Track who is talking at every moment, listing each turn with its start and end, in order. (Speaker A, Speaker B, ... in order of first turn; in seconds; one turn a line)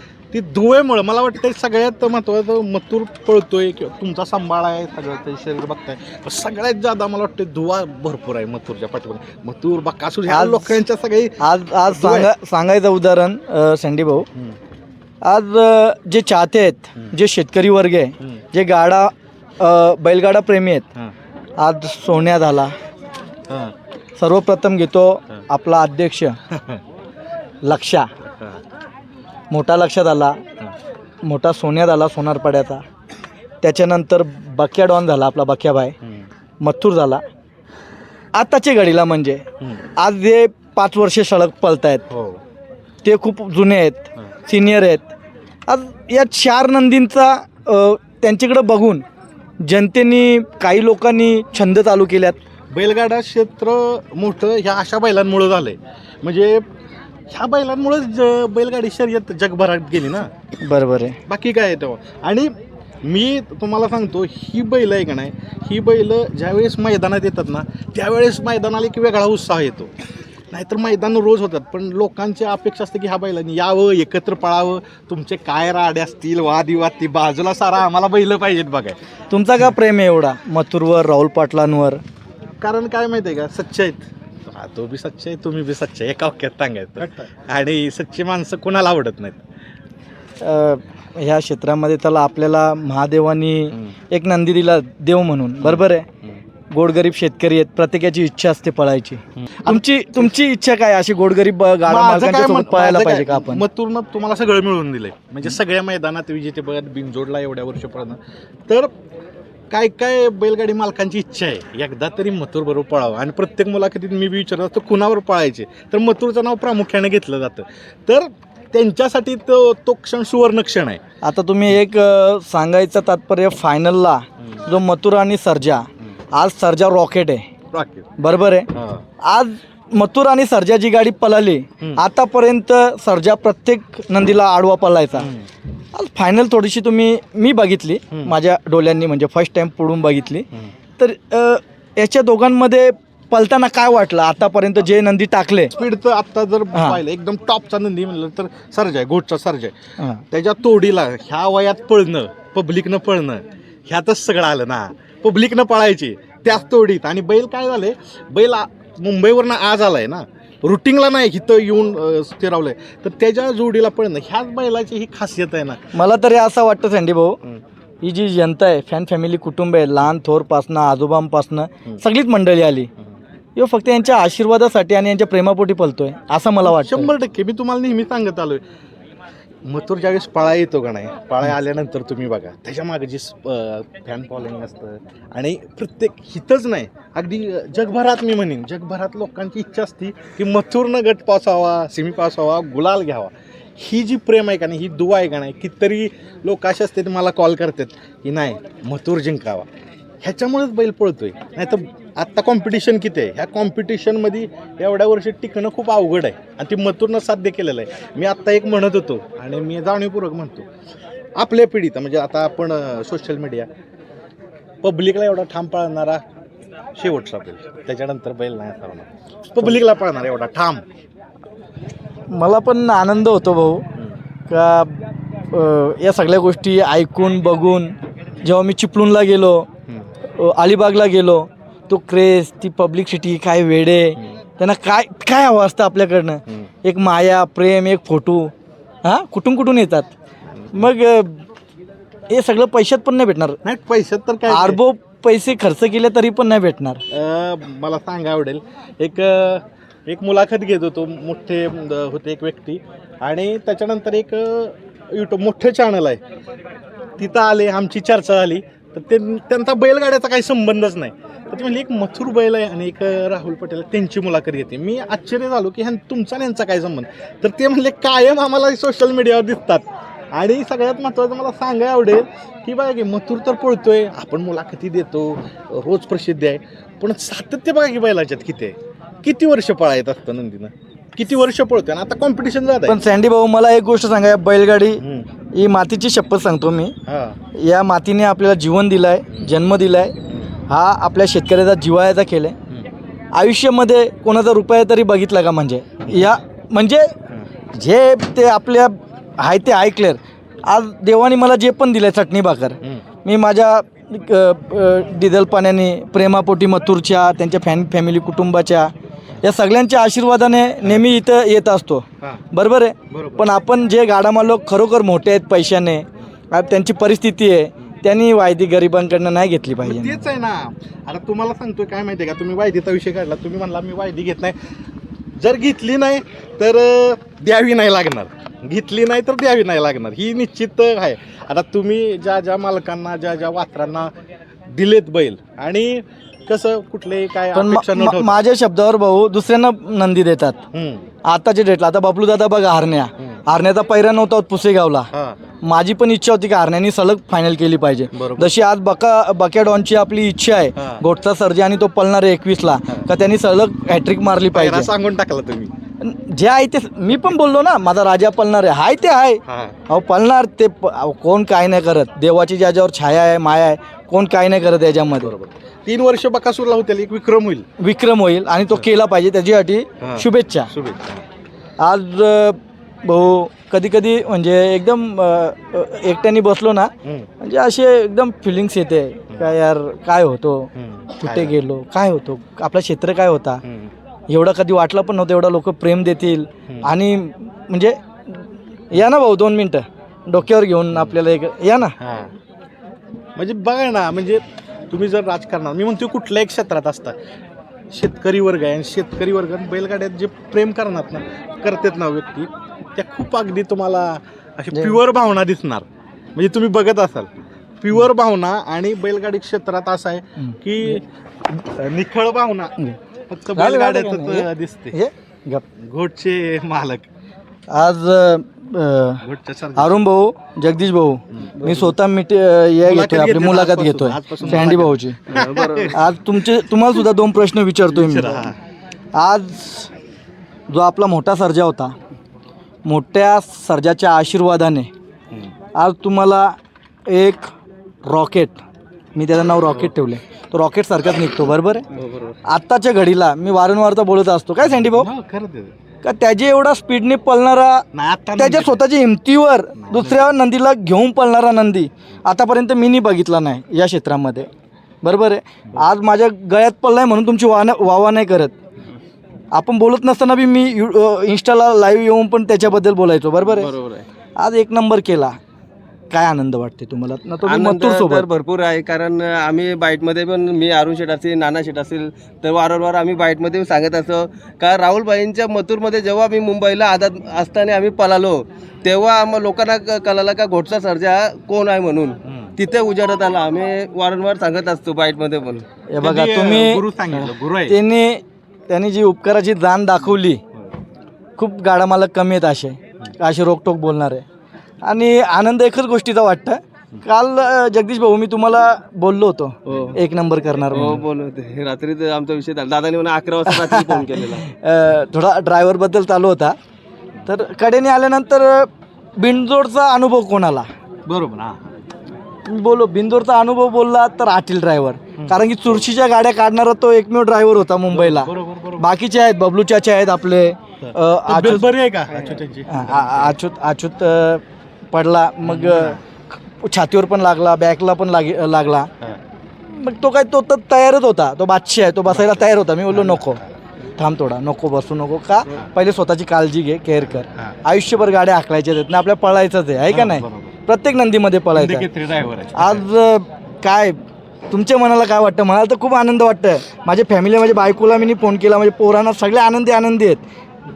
Speaker A: 0.3-12.3
Speaker B: 10.3-10.8
Speaker B: 11.4-14.3
Speaker B: 15.2-20.9
Speaker B: 21.6-22.7
Speaker A: 23.5-23.7
Speaker B: 24.2-26.4
Speaker A: 26.5-26.8
Speaker B: 27.6-28.1
Speaker A: 28.3-28.6
Speaker B: 29.5-30.4
Speaker B: 31.2-32.8
Speaker B: 33.6-36.0
Speaker B: 36.6-37.2
Speaker B: 38.3-39.4
Speaker B: 40.0-42.0
Speaker A: 42.1-42.4
Speaker B: 43.0-45.1
Speaker B: 45.7-49.0
Speaker B: 49.6-52.4
Speaker A: 52.7-56.6
Speaker A: 57.3-60.3
Speaker B: 60.6-61.2
Speaker A: 61.3-62.5
Speaker A: 63.0-69.9
Speaker A: 70.5-79.0
Speaker B: 79.3-82.0
Speaker A: 82.6-89.4
Speaker B: 90.4-96.1
Speaker A: 95.6-96.4
Speaker B: 96.7-103.6
Speaker A: 99.4-100.3
Speaker A: 101.9-108.9
Speaker A: 109.7-121.0
Speaker B: 121.2-127.5
Speaker A: 127.7-128.1
Speaker B: 128.2-128.7
Speaker A: 128.7-129.0
Speaker B: 129.2-135.3
Speaker A: 135.2-135.5
Speaker B: 135.9-145.7
Speaker A: 145.7-149.8
Speaker B: 146.7-147.0
Speaker A: 150.3-165.8
Speaker B: 165.9-167.4
Speaker B: 168.0-172.9
Speaker B: 173.6-177.1
Speaker A: 176.7-178.6
Speaker A: 179.7-199.7
Speaker A: 200.2-210.7
Speaker A: 211.4-213.7
Speaker A: 214.8-216.2
Speaker A: 217.0-220.8
Speaker B: 222.3-223.8
Speaker B: 224.5-229.7
Speaker B: 230.4-238.5
Speaker B: 239.0-240.1
Speaker B: 240.7-241.4
Speaker B: 242.3-243.6
Speaker A: 243.6-244.8
Speaker B: 244.5-247.0
Speaker A: 247.1-256.2
Speaker A: 257.2-283.0
Speaker B: 282.9-285.0
Speaker A: 285.0-285.3
Speaker B: 285.5-287.0
Speaker A: 287.1-287.4
Speaker B: 287.6-290.1
Speaker B: 290.7-292.6
Speaker B: 293.3-297.1
Speaker A: 296.1-296.3
Speaker B: 297.7-320.2
Speaker A: 313.1-313.5
Speaker A: 319.8-324.6
Speaker A: 325.4-334.1
Speaker A: 334.7-338.4
Speaker B: 337.5-340.6
Speaker A: 340.7-341.1
Speaker B: 341.2-345.1
Speaker A: 345.1-345.4
Speaker B: 345.6-354.9
Speaker A: 348.1-348.5
Speaker A: 350.8-351.0
Speaker A: 354.5-355.7
Speaker B: 356.0-365.3
Speaker A: 359.5-359.8
Speaker A: 365.2-367.7
Speaker B: 367.8-370.7
Speaker A: 370.0-371.2
Speaker B: 371.8-383.6
Speaker A: 380.8-381.6
Speaker A: 383.6-383.9
Speaker B: 384.3-388.4
Speaker B: 388.9-391.9
Speaker A: 392.0-392.3
Speaker A: 393.4-397.1
Speaker A: 397.9-405.9
Speaker A: 406.4-407.3
Speaker A: 407.8-415.0
Speaker B: 413.6-415.6
Speaker A: 415.8-417.1
Speaker B: 417.7-419.2
Speaker A: 419.2-420.1
Speaker B: 419.8-425.2
Speaker A: 422.9-426.0
Speaker C: 425.3-426.0
Speaker B: 425.9-428.5
Speaker A: 427.9-428.6
Speaker B: 429.1-429.9
Speaker B: 430.7-431.9
Speaker B: 432.9-434.9
Speaker B: 435.8-436.6
Speaker B: 437.1-437.5
Speaker B: 438.1-438.6
Speaker B: 439.1-441.9
Speaker C: 442.0-442.4
Speaker B: 442.5-445.1
Speaker A: 444.7-445.7
Speaker B: 446.0-447.9
Speaker A: 447.9-448.8
Speaker B: 448.4-454.5
Speaker A: 449.8-450.2
Speaker B: 455.0-458.6
Speaker B: 459.5-463.7
Speaker C: 463.4-464.1
Speaker B: 464.4-465.4
Speaker B: 466.1-468.2
Speaker C: 467.4-485.6
Speaker A: 482.2-482.6
Speaker B: 485.9-486.8
Speaker A: 486.0-487.8
Speaker B: 487.7-490.4
Speaker B: 491.4-494.2
Speaker B: 494.8-501.0
Speaker C: 499.7-500.0
Speaker C: 500.7-504.5
Speaker B: 503.5-506.6
Speaker B: 507.3-510.7
Speaker A: 511.1-511.7
Speaker B: 512.5-526.0
Speaker A: 515.2-515.9
Speaker A: 517.9-518.9
Speaker A: 520.8-523.4
Speaker A: 525.4-526.0
Speaker B: 526.5-528.9
Speaker B: 529.7-533.4
Speaker A: 532.1-533.5
Speaker B: 534.0-541.9
Speaker A: 539.9-540.5
Speaker A: 541.5-542.9
Speaker B: 542.6-544.0
Speaker B: 544.5-550.2